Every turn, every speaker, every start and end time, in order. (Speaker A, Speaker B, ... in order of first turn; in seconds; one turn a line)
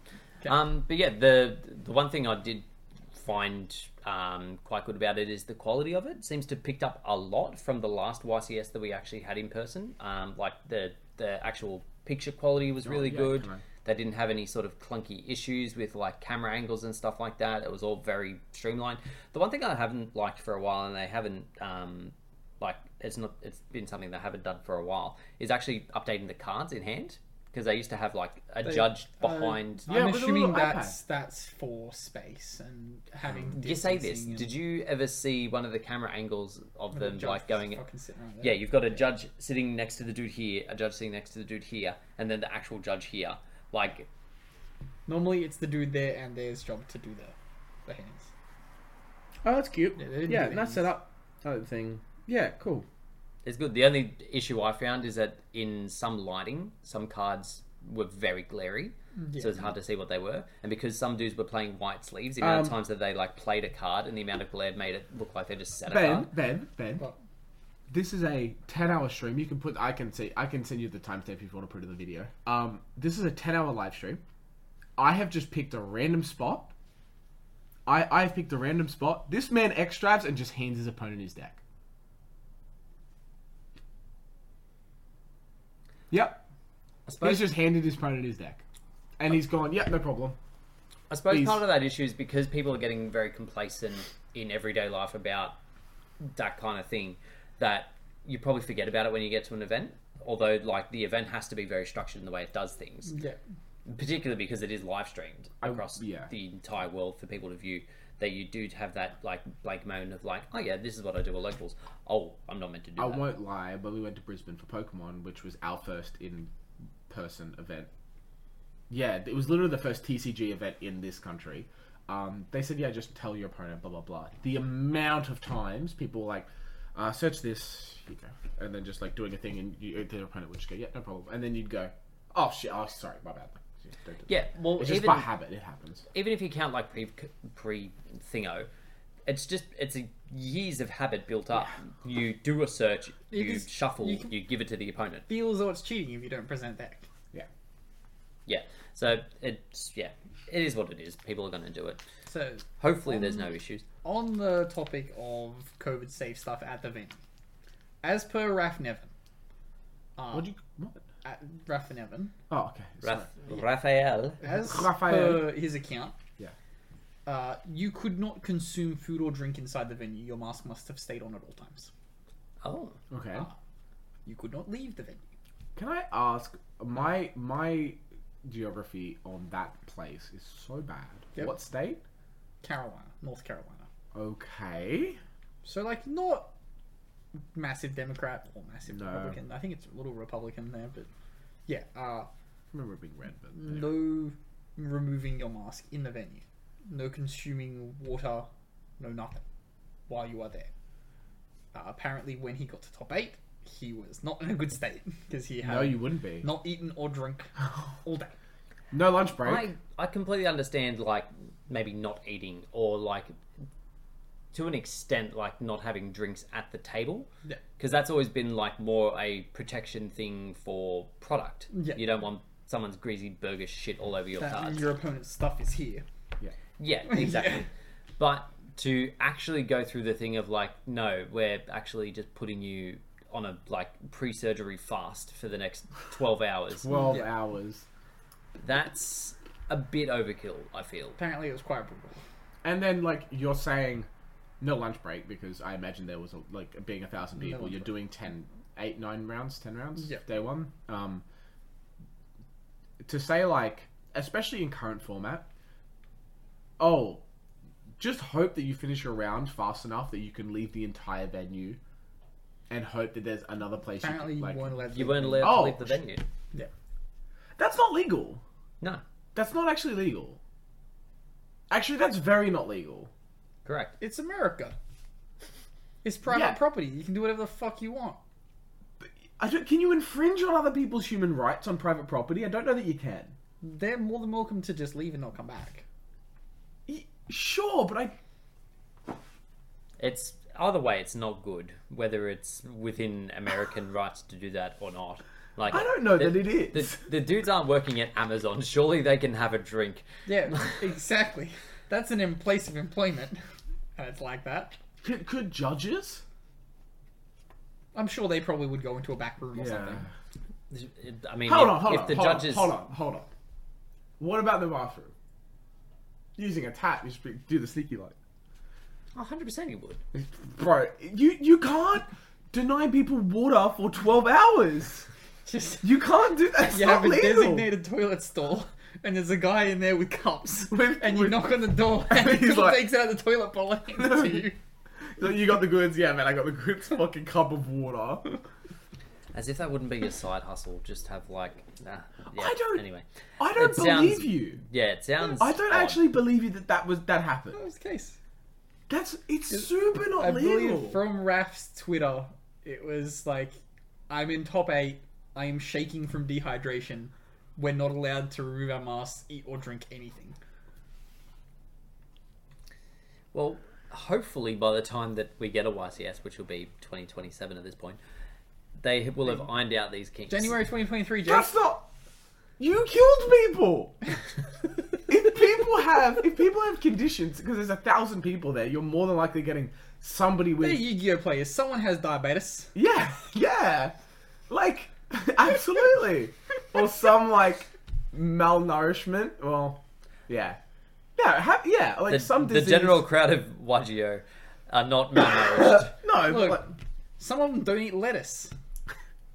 Speaker A: 0.4-29.9
Speaker B: 12.8-13.6
Speaker C: 28.6-34.5
Speaker B: 29.9-30.9
Speaker A: 33.5-37.8
Speaker C: 36.9-38.9
Speaker A: 38.4-44.1
Speaker C: 45.1-47.4
Speaker C: 47.9-48.3
Speaker B: 49.4-52.9
Speaker C: 50.0-50.9
Speaker A: 53.5-66.3
Speaker C: 59.2-59.6
Speaker B: 62.4-62.8
Speaker B: 65.9-67.0
Speaker B: 67.9-74.2
Speaker B: 75.0-76.7
Speaker B: 77.9-81.6
Speaker B: 86.1-86.4
Speaker A: 87.1-87.5
Speaker B: 87.2-88.6
Speaker B: 89.2-90.4
Speaker A: 91.1-95.6
Speaker B: 91.3-91.6
Speaker A: 96.2-103.2
Speaker C: 103.1-103.4
Speaker A: 103.9-113.3
Speaker B: 105.6-106.3
Speaker B: 113.0-116.5
Speaker B: 117.1-117.9
Speaker B: 118.9-136.1
Speaker A: 134.3-135.3
Speaker A: 136.1-138.7
Speaker A: 139.3-145.3
Speaker C: 143.3-144.3
Speaker C: 145.3-147.1
Speaker A: 148.5-152.0
Speaker C: 152.3-153.5
Speaker A: 152.8-153.8
Speaker C: 154.0-157.2
Speaker C: 158.0-159.1
Speaker C: 160.2-160.5
Speaker B: 160.3-161.1
Speaker C: 161.2-162.3
Speaker B: 162.5-163.3
Speaker A: 163.0-164.4
Speaker C: 164.4-166.2
Speaker B: 164.5-165.6
Speaker C: 167.3-171.9
Speaker A: 172.6-173.0
Speaker B: 173.1-173.5
Speaker C: 174.3-175.2
Speaker B: 175.8-182.0
Speaker C: 182.6-183.9
Speaker B: 184.1-185.2
Speaker C: 185.6-186.5
Speaker C: 187.5-191.1
Speaker B: 188.9-189.4
Speaker C: 191.7-192.3
Speaker B: 192.7-194.1
Speaker C: 193.6-198.5
Speaker C: 199.0-199.4
Speaker C: 200.1-200.7
Speaker C: 201.7-207.5
Speaker B: 205.6-206.5
Speaker C: 208.0-208.3
Speaker B: 208.9-209.7
Speaker A: 209.4-213.4
Speaker A: 214.5-224.8
Speaker C: 221.7-222.1
Speaker C: 224.4-226.1
Speaker A: 226.8-227.7
Speaker C: 227.1-227.7
Speaker A: 228.2-236.9
Speaker B: 236.8-237.8
Speaker C: 236.9-237.3
Speaker A: 238.6-241.2
Speaker C: 241.2-242.2
Speaker B: 242.6-244.1
Speaker B: 244.6-251.2
Speaker C: 247.4-247.9
Speaker C: 250.0-250.2
Speaker B: 253.0-255.5
Speaker B: 256.8-257.2
Speaker B: 258.0-261.8
Speaker B: 262.7-264.8
Speaker C: 264.0-265.7
Speaker A: 264.9-266.3
Speaker B: 265.4-266.0
Speaker B: 267.6-268.4
Speaker B: 269.4-270.4
Speaker B: 271.7-273.1
Speaker A: 273.6-273.9
Speaker C: 274.0-274.8
Speaker C: 276.0-278.2
Speaker B: 276.3-276.6
Speaker B: 279.0-283.4
Speaker C: 283.6-285.8
Speaker B: 286.9-288.2
Speaker A: 290.0-300.8
Speaker B: 295.7-297.1
Speaker C: 300.3-303.4
Speaker C: 304.0-304.7
Speaker B: 305.0-306.2
Speaker C: 307.9-310.1
Speaker B: 309.6-310.1
Speaker A: 310.7-312.8
Speaker B: 311.5-313.3
Speaker B: 314.2-315.1
Speaker B: 316.4-318.2
Speaker A: 319.1-320.0
Speaker B: 320.1-325.1
Speaker C: 325.5-325.9
Speaker B: 325.8-327.7
Speaker C: 326.6-334.6
Speaker B: 330.7-332.9
Speaker B: 334.0-334.5
Speaker B: 335.2-338.4
Speaker A: 339.3-346.0
Speaker B: 342.3-342.8
Speaker B: 343.4-344.6
Speaker B: 345.2-347.6
Speaker C: 347.5-348.2
Speaker B: 348.9-351.0
Speaker C: 350.2-353.6
Speaker C: 354.1-360.4
Speaker A: 363.3-368.0
Speaker A: 368.8-370.6
Speaker C: 370.3-371.5
Speaker B: 371.2-371.9
Speaker B: 372.6-374.0
Speaker B: 375.1-380.9
Speaker C: 380.6-382.7
Speaker B: 382.8-383.9
Speaker B: 384.5-390.6
Speaker B: 391.2-393.1
Speaker A: 392.1-395.9
Speaker B: 395.6-396.7
Speaker C: 396.1-398.5